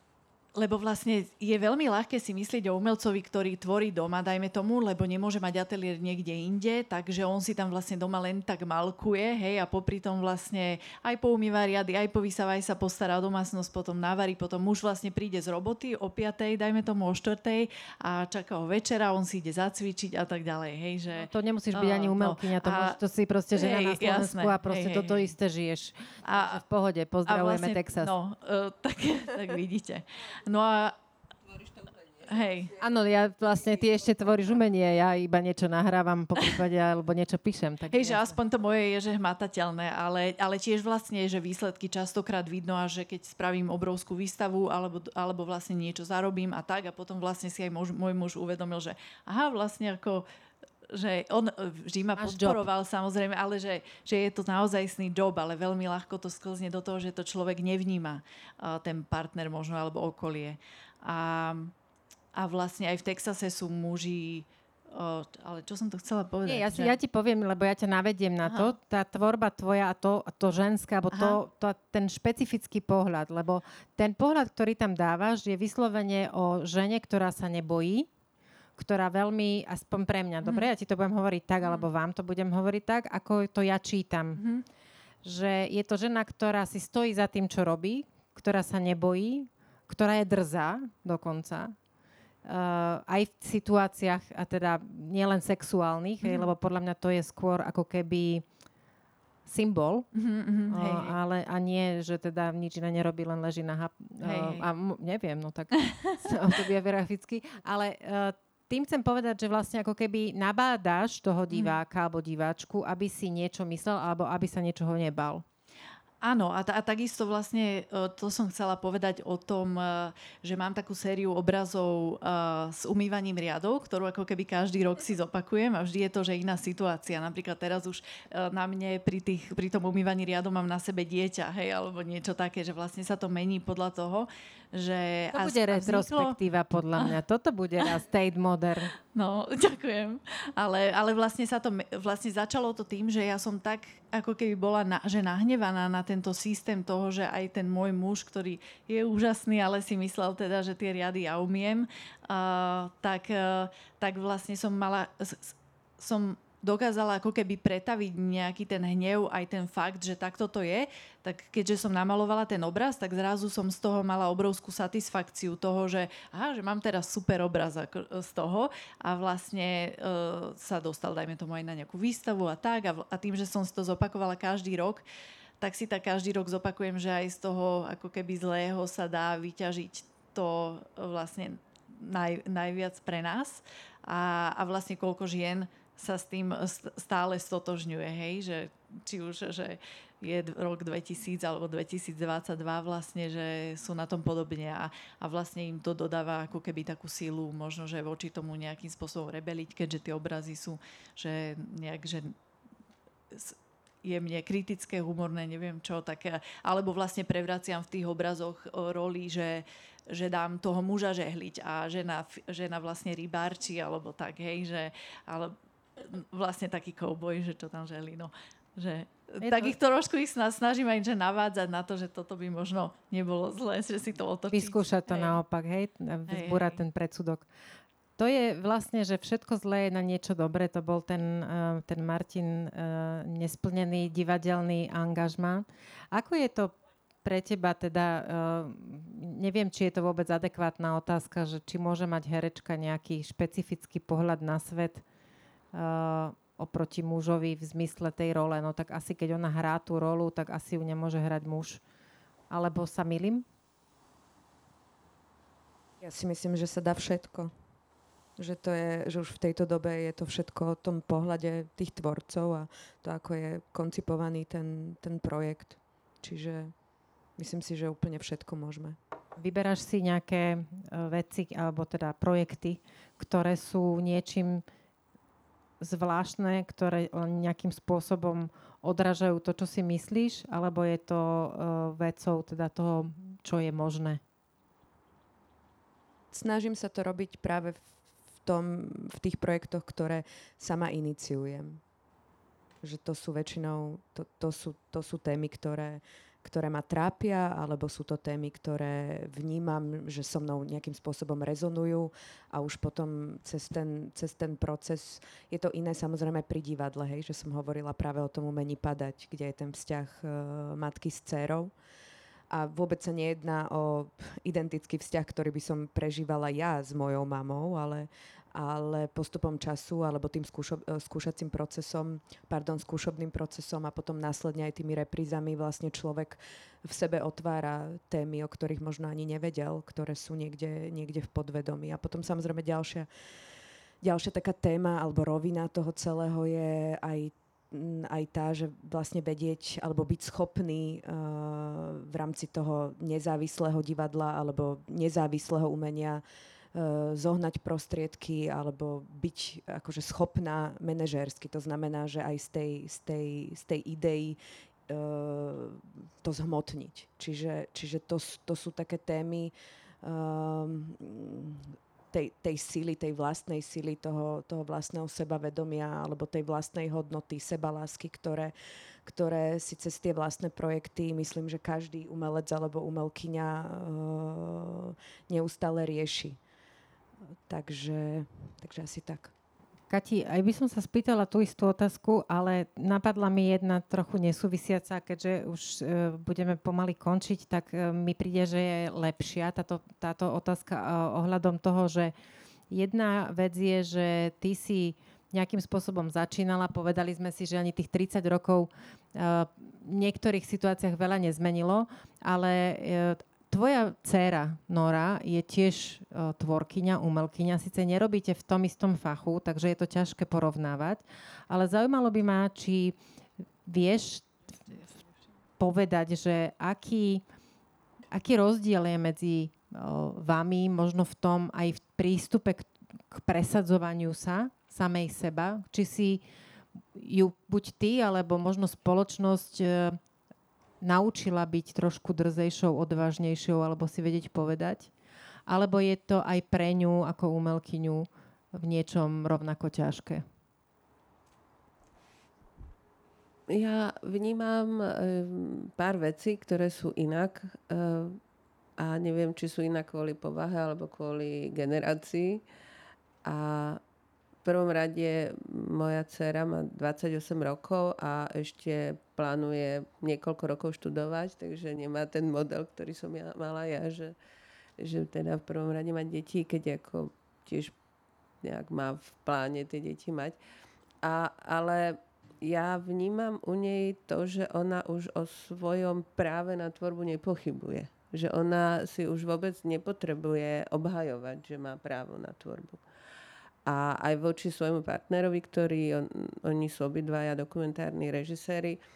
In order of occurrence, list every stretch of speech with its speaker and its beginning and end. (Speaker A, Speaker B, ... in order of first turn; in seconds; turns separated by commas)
Speaker A: 0.6-23.0, Speaker B: 21.2-28.1, Speaker A: 23.5-25.3, Speaker A: 26.2-26.6, Speaker A: 27.3-31.0, Speaker A: 32.1-32.8, Speaker B: 32.8-38.4, Speaker A: 37.9-50.3, Speaker A: 50.9-61.7, Speaker B: 52.2-52.6, Speaker A: 62.3-66.9, Speaker B: 66.5-78.1, Speaker A: 68.5-68.7, Speaker A: 71.1-71.4, Speaker B: 78.8-84.4, Speaker A: 84.4-84.7, Speaker B: 85.2-91.8, Speaker B: 92.5-98.4, Speaker A: 96.2-96.5, Speaker B: 99.5-100.1, Speaker A: 100.1-101.2, Speaker B: 100.7-115.4, Speaker A: 104.2-104.7, Speaker A: 116.2-136.4, Speaker B: 135.3-138.9, Speaker A: 139.1-175.0, Speaker A: 175.6-202.3, Speaker A: 203.3-225.4, Speaker B: 219.4-219.8, Speaker B: 224.5-227.5, Speaker A: 226.3-226.8, Speaker B: 228.2-245.0, Speaker B: 245.7-251.8, Speaker B: 252.5-253.4, Speaker C: 256.0-257.5, Speaker C: 258.4-266.7, Speaker C: 267.4-269.0, Speaker B: 269.4-274.6, Speaker B: 275.8-284.2, Speaker C: 286.3-287.9, Speaker C: 288.4-291.8, Speaker C: 292.8-311.7, Speaker C: 312.5-333.1, Speaker C: 334.0-346.2, Speaker C: 346.7-368.5, Speaker C: 369.0-376.4, Speaker C: 377.5-379.3, Speaker B: 379.9-392.1, Speaker B: 392.7-412.9, Speaker B: 413.7-414.3, Speaker B: 415.6-417.2, Speaker B: 418.1-426.2, Speaker B: 426.9-430.0, Speaker B: 430.8-434.9, Speaker B: 435.5-440.2, Speaker D: 443.5-448.2, Speaker D: 448.8-452.4, Speaker D: 453.2-453.8, Speaker D: 454.4-464.1, Speaker D: 464.8-467.8, Speaker D: 468.4-470.4, Speaker D: 471.0-482.8, Speaker D: 483.6-488.8